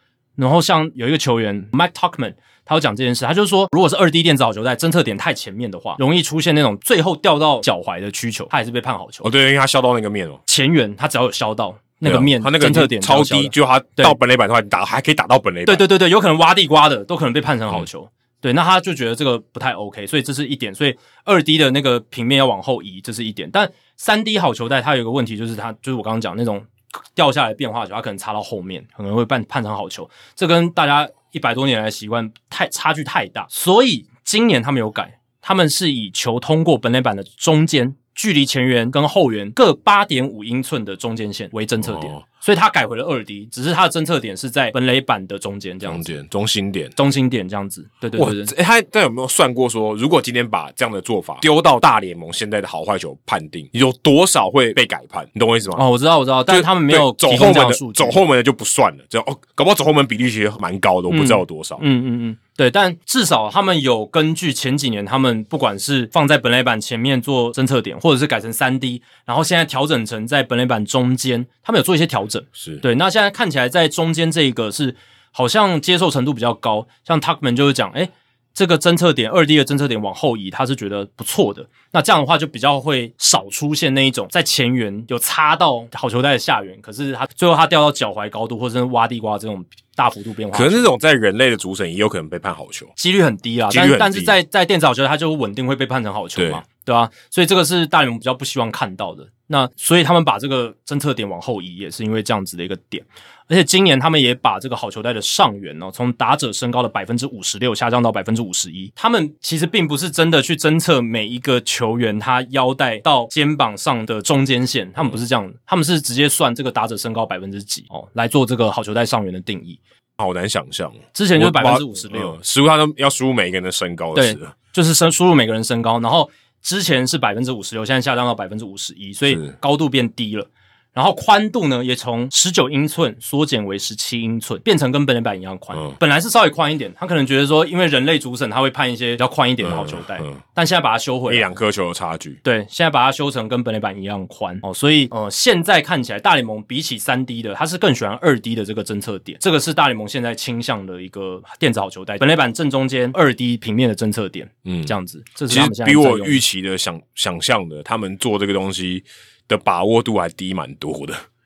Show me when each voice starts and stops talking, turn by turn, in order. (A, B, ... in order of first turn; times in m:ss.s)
0:00.4-0:09.3 A
0:09.2-0:10.4 B
0:10.5-0:14.2 A
0:12.0-0:15.8 B
0:15.7-0:46.1 A
0:41.8-0:42.2 B
0:45.8-0:46.9 B
0:47.0-0:48.5 A
0:48.2-0:55.8 B
0:55.8-0:58.2 A
0:56.5-1:01.8 B
1:01.1-1:30.9 A
1:12.6-1:12.8 B
1:30.5-1:32.9 B
1:33.0-1:59.8 A
1:33.7-1:34.4 B
1:36.4-1:36.6 B
2:00.2-2:04.5 B
2:01.1-2:02.4 A
2:04.2-2:21.4 A
2:19.6-2:20.4 B
2:21.3-2:22.4 B
2:22.4-2:36.4 A
2:34.6-2:34.9 B
2:35.5-2:41.2 B